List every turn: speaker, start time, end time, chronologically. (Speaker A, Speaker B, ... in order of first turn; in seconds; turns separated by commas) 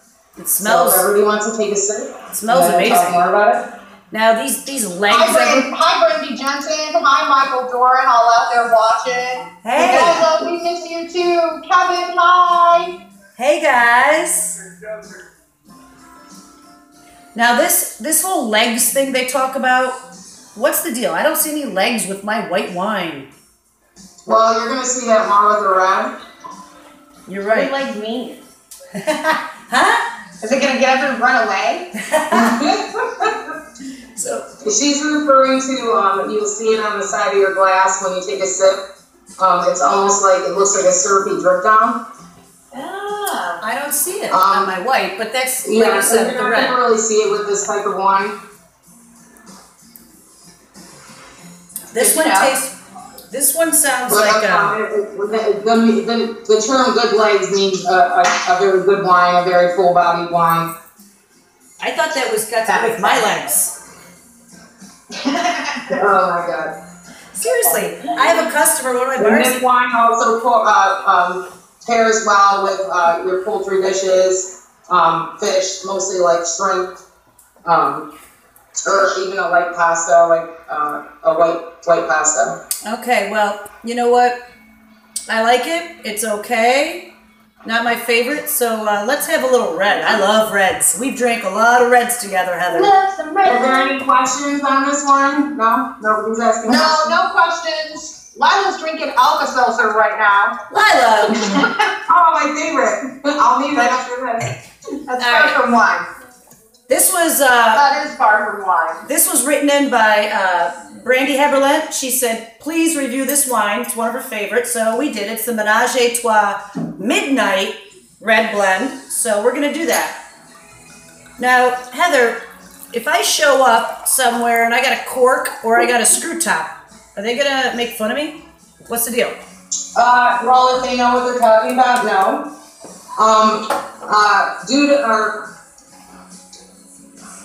Speaker A: 0.4-1.1, Speaker B: 0.6-3.7, Speaker A: 2.3-3.2, Speaker A: 4.1-5.7, Speaker C: 5.1-12.9, Speaker A: 9.6-10.3, Speaker A: 13.4-14.5, Speaker A: 17.4-20.0, Speaker A: 20.6-23.3, Speaker B: 24.3-26.1, Speaker A: 27.3-27.7, Speaker C: 27.5-28.4, Speaker A: 29.0-30.0, Speaker C: 30.4-31.9, Speaker A: 32.0-32.6, Speaker B: 32.3-33.4, Speaker A: 34.2-34.5, Speaker B: 34.6-38.8, Speaker B: 39.4-42.0, Speaker C: 42.7-43.6, Speaker A: 43.6-46.8, Speaker B: 44.3-44.7, Speaker B: 45.6-48.4, Speaker C: 51.9-52.5, Speaker A: 51.9-52.7, Speaker A: 53.3-54.8, Speaker B: 54.1-60.7, Speaker A: 61.8-63.7, Speaker C: 62.7-63.4, Speaker C: 65.2-66.0, Speaker B: 65.9-66.7, Speaker A: 67.3-69.6, Speaker B: 69.2-76.9, Speaker B: 77.7-78.1, Speaker B: 78.9-82.6, Speaker A: 82.8-84.4, Speaker A: 85.3-87.1, Speaker A: 87.6-92.9, Speaker C: 92.7-94.0, Speaker B: 93.4-97.1, Speaker C: 96.7-100.5, Speaker A: 100.7-101.4, Speaker C: 101.3-101.8, Speaker B: 102.1-104.5, Speaker C: 105.1-106.1, Speaker A: 105.2-105.6, Speaker A: 106.9-107.8, Speaker C: 107.7-109.0, Speaker A: 109.1-120.2, Speaker A: 121.4-122.4, Speaker A: 122.9-129.4, Speaker B: 130.0-132.5, Speaker B: 133.2-135.5